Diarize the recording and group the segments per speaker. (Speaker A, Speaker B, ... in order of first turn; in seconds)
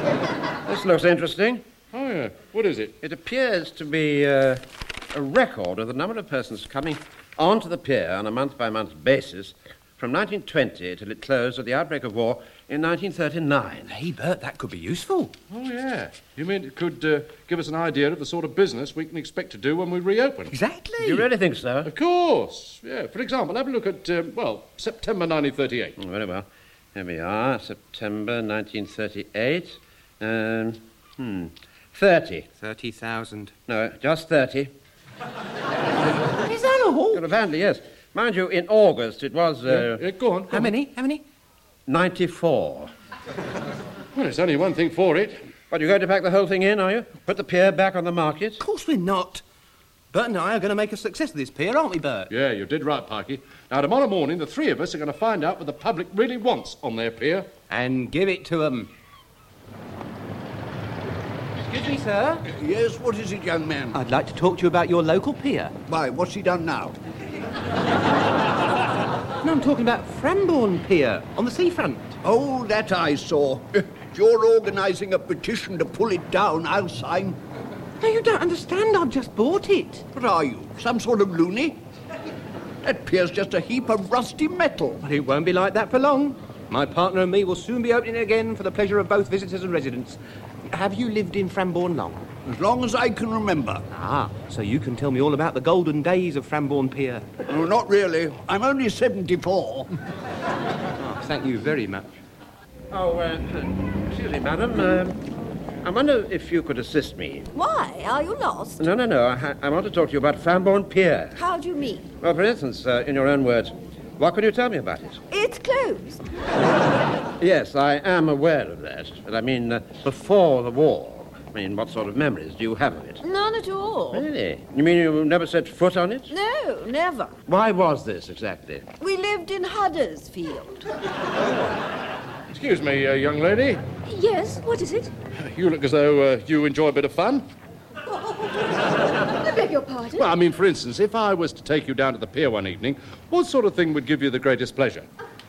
Speaker A: 0.7-1.7, 3.0-13.9, 21.0-21.9, 26.0-32.5, 33.7-34.7, 37.1-40.0, 41.9-42.9, 45.7-48.6, 102.9-105.2, 105.8-107.5, 108.8-111.4, 112.2-115.2, 117.4-123.2, 124.1-126.3, 127.5-128.9
Speaker B: 1.9-3.0, 15.5-20.5, 21.9-26.0, 39.7-40.7, 44.1-45.4, 52.3-57.5, 132.5-133.8, 135.3-137.5, 140.2-145.1
Speaker C: 13.9-15.3, 20.5-21.3, 32.6-33.5, 36.4-37.2, 40.5-41.2, 48.6-49.4, 50.1-52.3, 57.7-58.9, 61.6-62.4, 63.9-65.8, 69.4-72.2, 78.0-80.0, 85.0-92.3, 93.9-97.3, 101.0-102.1
Speaker D: 62.5-64.0, 65.9-67.0, 72.2-77.4, 80.1-81.8, 82.8-85.0, 92.5-93.8, 97.5-99.9
Speaker E: 107.5-108.9, 111.4-112.1, 115.3-116.2, 123.2-124.3, 126.3-127.3, 129.0-130.8, 134.1-135.1, 139.4-140.3